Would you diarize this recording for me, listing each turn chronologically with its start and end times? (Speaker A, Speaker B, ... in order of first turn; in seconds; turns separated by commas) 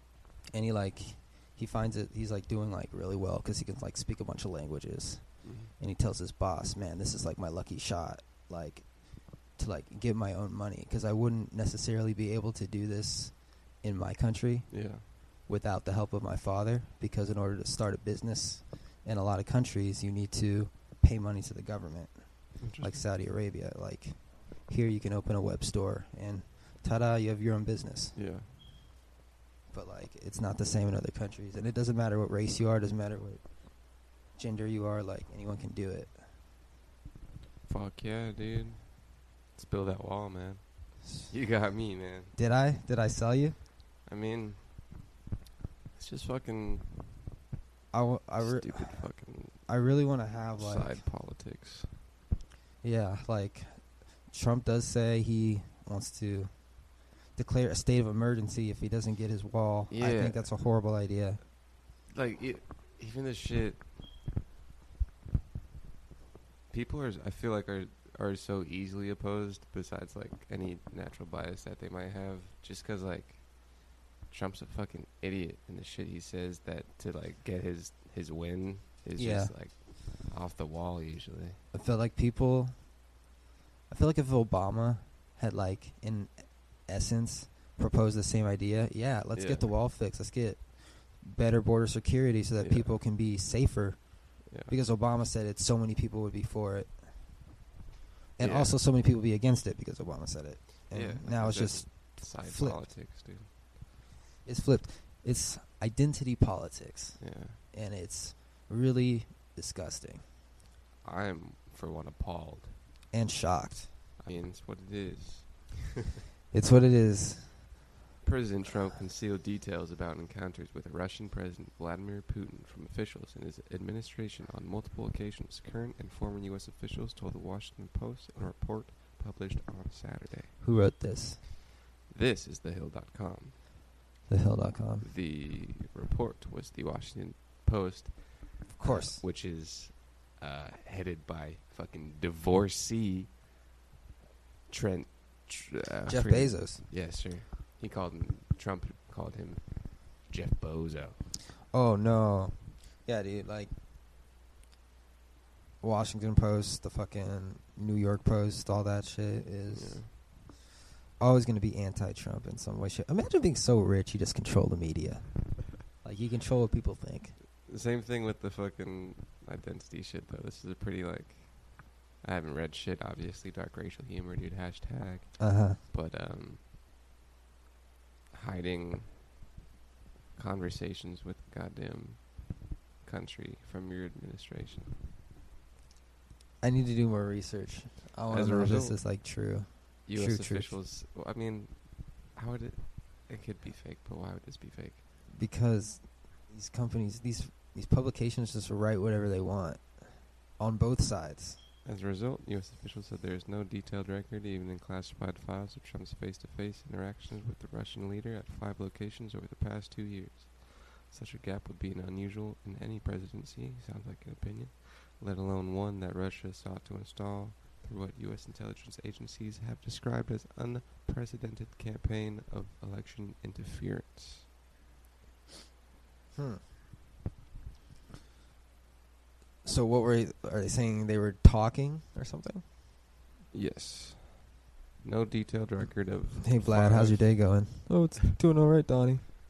Speaker A: 0.5-28.2, Speaker B: 5.4-5.7, Speaker B: 14.7-15.0, Speaker B: 22.6-23.1, Speaker B: 28.1-28.5, Speaker A: 29.7-36.2, Speaker B: 37.6-42.3, Speaker A: 41.0-41.3, Speaker A: 42.3-43.6, Speaker B: 44.0-44.9, Speaker B: 45.9-46.9, Speaker A: 47.9-51.0, Speaker B: 48.4-49.6, Speaker B: 50.6-51.9, Speaker A: 52.8-61.4, Speaker B: 59.9-60.5, Speaker B: 62.0-63.9, Speaker B: 66.7-81.6, Speaker A: 79.2-79.5, Speaker A: 81.7-83.0, Speaker A: 83.9-97.1, Speaker B: 89.3-89.7, Speaker B: 92.6-93.0, Speaker B: 94.5-94.8, Speaker A: 98.4-102.8, Speaker B: 98.4-98.8, Speaker B: 100.9-103.5, Speaker A: 104.4-110.2, Speaker B: 107.2-107.6, Speaker B: 111.0-112.8, Speaker A: 113.1-113.9, Speaker B: 114.2-116.0, Speaker A: 116.5-117.8, Speaker B: 118.2-130.6, Speaker A: 130.6-131.4, Speaker B: 132.1-133.6, Speaker A: 134.3-135.1, Speaker B: 135.0-143.3, Speaker A: 138.7-139.2, Speaker B: 144.7-151.2, Speaker A: 146.1-146.8, Speaker A: 151.7-153.8, Speaker A: 155.8-160.4, Speaker B: 159.7-160.1, Speaker A: 161.2-167.4, Speaker B: 167.6-176.6, Speaker A: 175.4-175.8, Speaker B: 178.3-179.1, Speaker B: 180.3-184.9, Speaker A: 186.6-190.8, Speaker B: 188.3-189.0, Speaker B: 190.1-195.0, Speaker A: 195.3-201.6, Speaker B: 201.8-224.5, Speaker A: 226.3-226.6, Speaker A: 229.6-232.6, Speaker B: 233.5-237.6, Speaker A: 236.4-239.3